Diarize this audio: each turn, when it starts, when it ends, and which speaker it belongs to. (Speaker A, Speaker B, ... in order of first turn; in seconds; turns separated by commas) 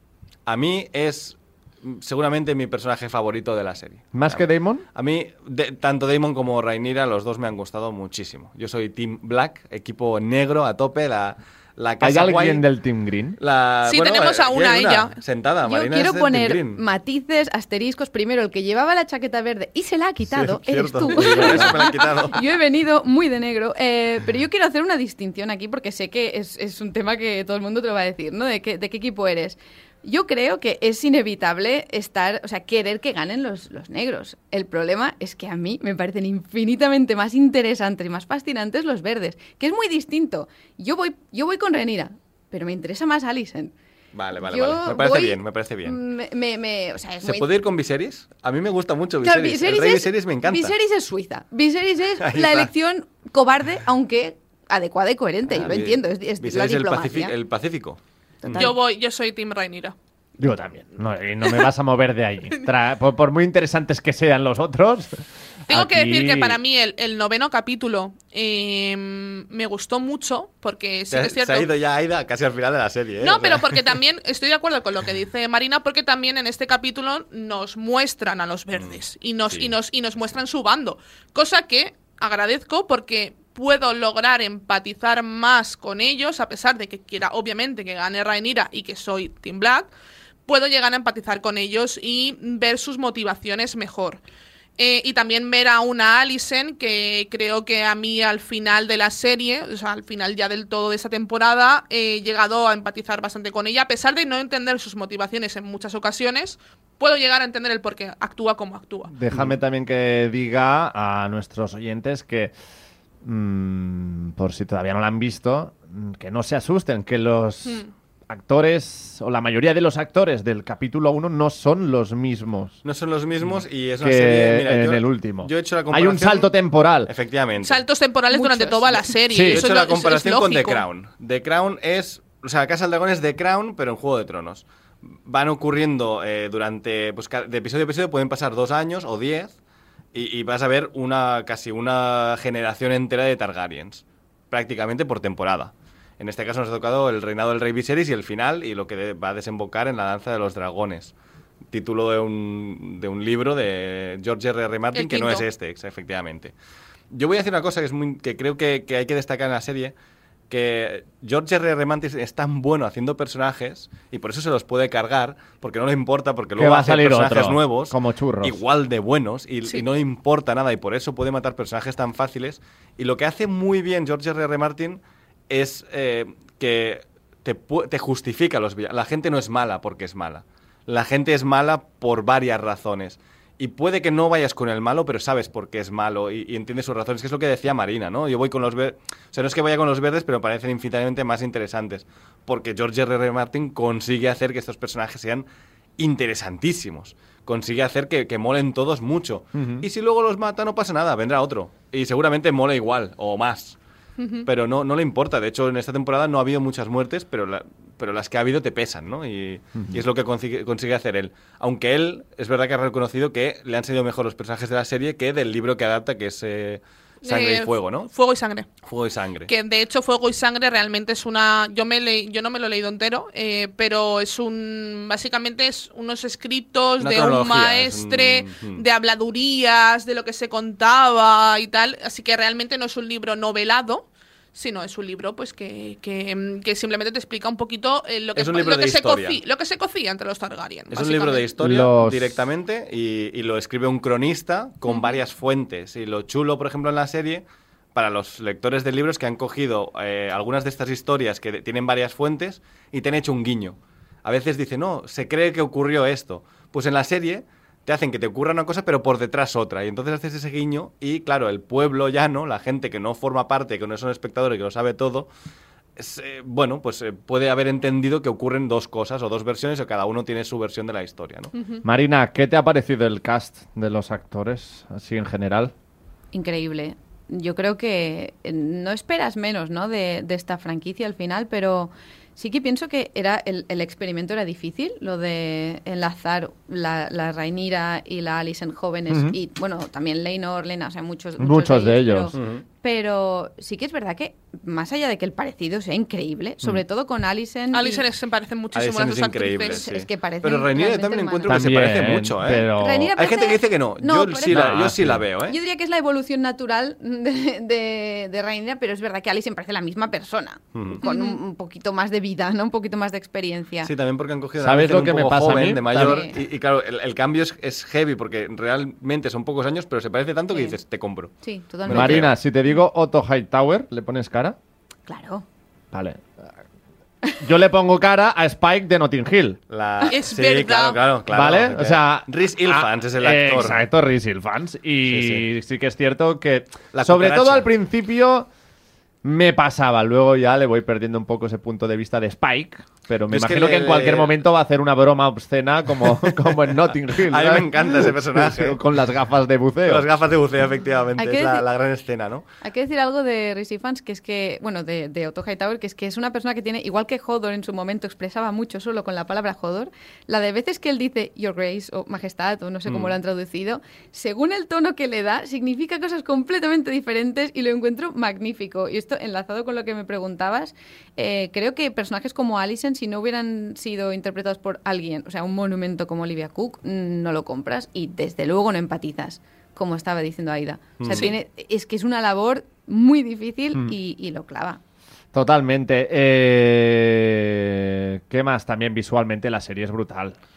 Speaker A: 0.5-12.7, Speaker B: 4.1-4.9, Speaker B: 12.0-13.4, Speaker A: 13.4-16.8, Speaker C: 13.8-15.1, Speaker D: 15.6-43.7, Speaker A: 20.3-22.4, Speaker A: 44.1-46.0, Speaker D: 44.4-47.5, Speaker A: 47.2-50.7, Speaker D: 49.2-57.4, Speaker A: 52.2-52.7, Speaker A: 55.5-58.7, Speaker D: 58.4-58.7, Speaker C: 58.5-60.0, Speaker B: 60.4-66.6, Speaker C: 65.7-71.7, Speaker A: 71.1-73.8, Speaker C: 73.2-89.9, Speaker A: 78.7-79.7, Speaker C: 90.5-94.2, Speaker C: 94.8-109.1, Speaker B: 109.1-112.5, Speaker B: 113.2-122.8, Speaker C: 117.7-117.9, Speaker A: 122.8-126.5, Speaker B: 123.5-127.1, Speaker A: 127.0-127.8, Speaker C: 127.6-130.8, Speaker D: 128.3-129.0, Speaker A: 128.7-139.6, Speaker B: 129.3-129.6, Speaker A: 140.1-151.1, Speaker A: 151.7-156.5, Speaker C: 154.9-155.5, Speaker A: 157.1-159.9, Speaker A: 160.5-203.8, Speaker B: 166.6-168.6, Speaker B: 199.5-199.8, Speaker C: 204.2-204.5, Speaker A: 204.4-218.1, Speaker C: 217.2-218.7, Speaker A: 218.8-219.5, Speaker C: 219.5-241.5, Speaker A: 227.0-228.8, Speaker A: 238.3-239.4, Speaker A: 240.9-265.3, Speaker B: 241.6-242.4, Speaker C: 244.9-245.2, Speaker A: 266.0-271.5, Speaker C: 271.5-271.8, Speaker B: 271.8-275.7, Speaker D: 276.3-298.1, Speaker B: 289.1-289.4, Speaker B: 291.4-292.3, Speaker A: 292.3-292.6, Speaker C: 297.7-299.8, Speaker A: 298.7-305.6, Speaker D: 299.6-301.9, Speaker B: 301.5-303.2, Speaker D: 302.7-304.7, Speaker B: 304.4-305.2, Speaker D: 305.4-313.9, Speaker A: 310.7-311.1, Speaker A: 313.8-322.3, Speaker B: 314.6-316.2, Speaker D: 315.9-316.3, Speaker D: 320.5-320.8, Speaker D: 321.4-322.3, Speaker B: 321.9-324.6, Speaker D: 325.1-325.4, Speaker B: 325.9-326.2, Speaker B: 327.4-329.6, Speaker A: 329.7-333.8, Speaker C: 330.1-331.0, Speaker B: 331.3-338.5, Speaker A: 335.0-335.4, Speaker A: 336.9-337.7, Speaker B: 339.2-350.1, Speaker A: 343.3-344.4, Speaker A: 347.2-348.8, Speaker A: 349.8-352.4, Speaker D: 351.2-351.6, Speaker D: 352.6-384.8, Speaker A: 362.9-363.1, Speaker A: 381.0-381.3, Speaker C: 381.1-381.4, Speaker B: 385.3-390.4